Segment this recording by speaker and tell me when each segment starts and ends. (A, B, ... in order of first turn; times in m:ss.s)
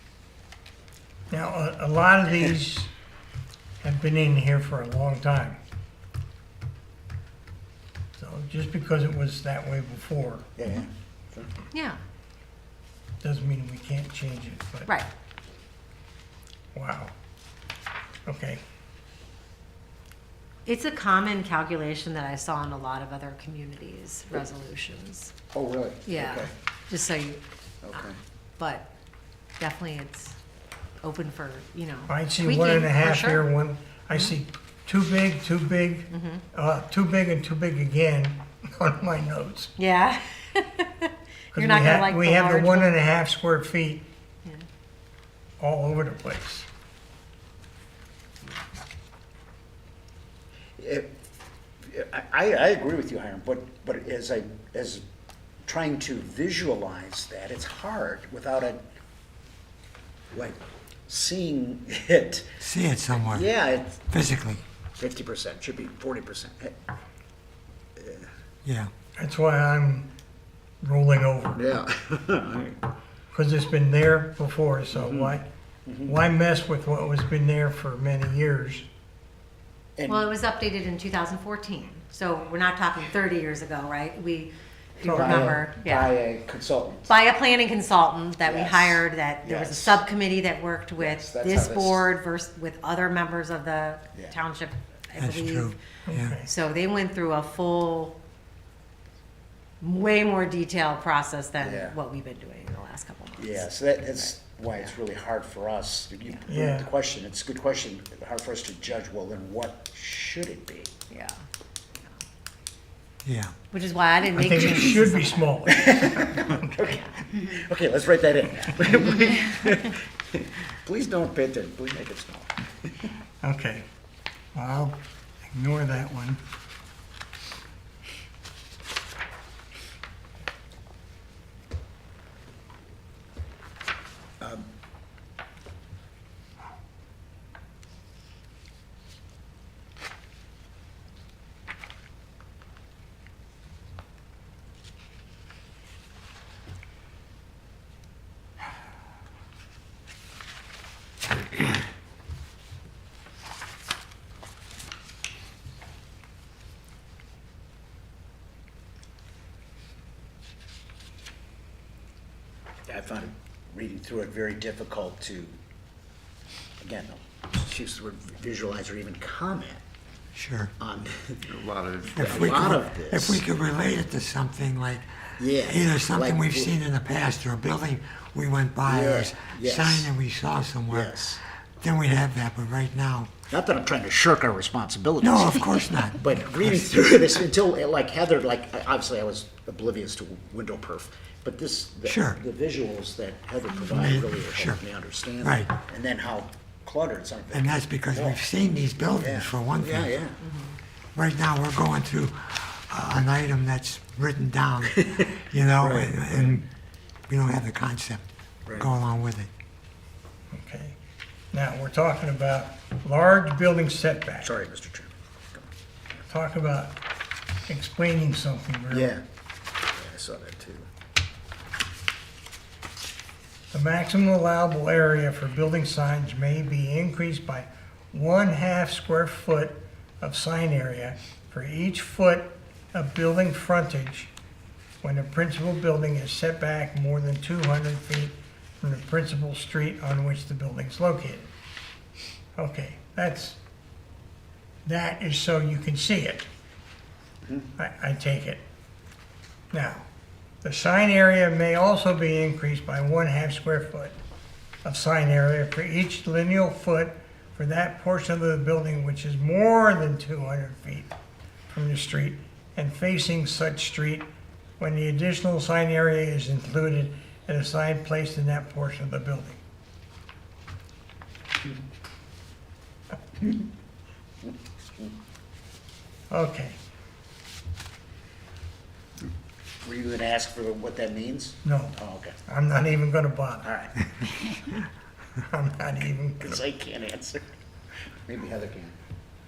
0:01.3-0:02.9 A
0:03.8-0:05.6 A
0:08.2-0:10.5 A
0:10.6-0:11.5 B
0:11.7-0:12.0 C
0:13.2-0:14.9 A
0:16.7-0:17.1 A
0:18.3-0:18.6 A
0:20.7-0:25.3 C
0:25.5-0:26.5 B
0:26.1-0:27.4 C
0:27.8-0:28.2 B
0:27.9-0:28.9 C
0:29.6-0:30.4 C
0:31.0-0:33.5 C
0:32.1-0:39.7 A
0:36.1-0:36.4 C
0:39.8-0:42.9 C
0:41.5-0:44.0 A
0:45.6-0:46.7 A
0:50.8-0:51.2 B
0:51.8-0:55.0 B
0:55.6-0:58.8 B
1:00.3-1:02.5 B
1:02.6-1:03.5 D
1:03.2-1:04.0 B
1:04.1-1:04.6 D
1:05.0-1:06.8 B
1:08.0-1:08.3 B
1:08.6-1:08.9 D
1:09.2-1:10.1 A
1:10.8-1:11.7 A
1:11.6-1:12.8 B
1:13.3-1:15.5 A
1:14.9-1:16.2 B
1:16.0-1:18.9 A
1:20.0-1:20.3 B
1:20.1-1:26.1 C
1:25.0-1:25.6 A
1:25.0-1:27.1 B
1:27.1-1:35.8 C
1:28.4-1:30.0 B
1:31.0-1:32.1 B
1:35.2-1:36.4 D
1:36.1-1:36.5 A
1:36.4-1:38.2 C
1:39.8-1:44.9 C
1:41.6-1:42.0 B
1:43.4-1:50.9 B
1:46.5-1:46.9 A
1:51.1-1:51.4 C
1:53.2-1:53.5 D
1:53.7-1:55.5 C
1:54.3-1:57.0 A
1:55.7-2:02.6 B
2:03.4-2:03.9 A
2:04.6-2:06.4 A
2:14.4-2:14.7 B
2:42.9-2:45.6 B
2:46.8-2:49.8 B
2:50.4-2:50.7 D
2:50.8-2:53.4 B
2:52.1-3:01.2 D
2:55.4-2:56.7 B
2:58.9-3:00.1 B
3:00.9-3:01.4 B
3:01.8-3:03.3 D
3:03.5-3:18.4 B
3:05.2-3:06.8 D
3:12.0-3:12.4 D
3:13.9-3:14.8 D
3:15.4-3:15.7 D
3:17.5-3:20.2 D
3:19.2-3:20.4 B
3:20.4-3:20.8 C
3:21.2-3:26.7 D
3:25.8-3:26.5 B
3:27.3-3:29.5 D
3:30.5-3:31.0 A
3:31.5-3:34.5 A
3:34.4-3:35.7 B
3:36.3-3:37.0 A
3:37.7-3:39.2 A
3:38.9-3:39.2 B
3:40.0-3:40.9 B
3:43.7-3:54.3 A
3:55.0-4:01.5 A
4:02.6-4:03.6 A
4:04.8-4:06.5 A
4:07.8-4:08.6 A
4:09.7-4:10.1 A
4:10.6-4:14.2 A
4:14.8-4:21.1 A
4:21.7-4:24.3 A
4:24.8-4:29.6 A
4:36.3-4:36.8 A
4:39.8-4:42.4 B
4:41.6-4:43.7 A
4:43.6-4:44.0 B
4:45.4-4:46.6 A
4:46.4-4:47.4 B
4:48.3-4:49.0 B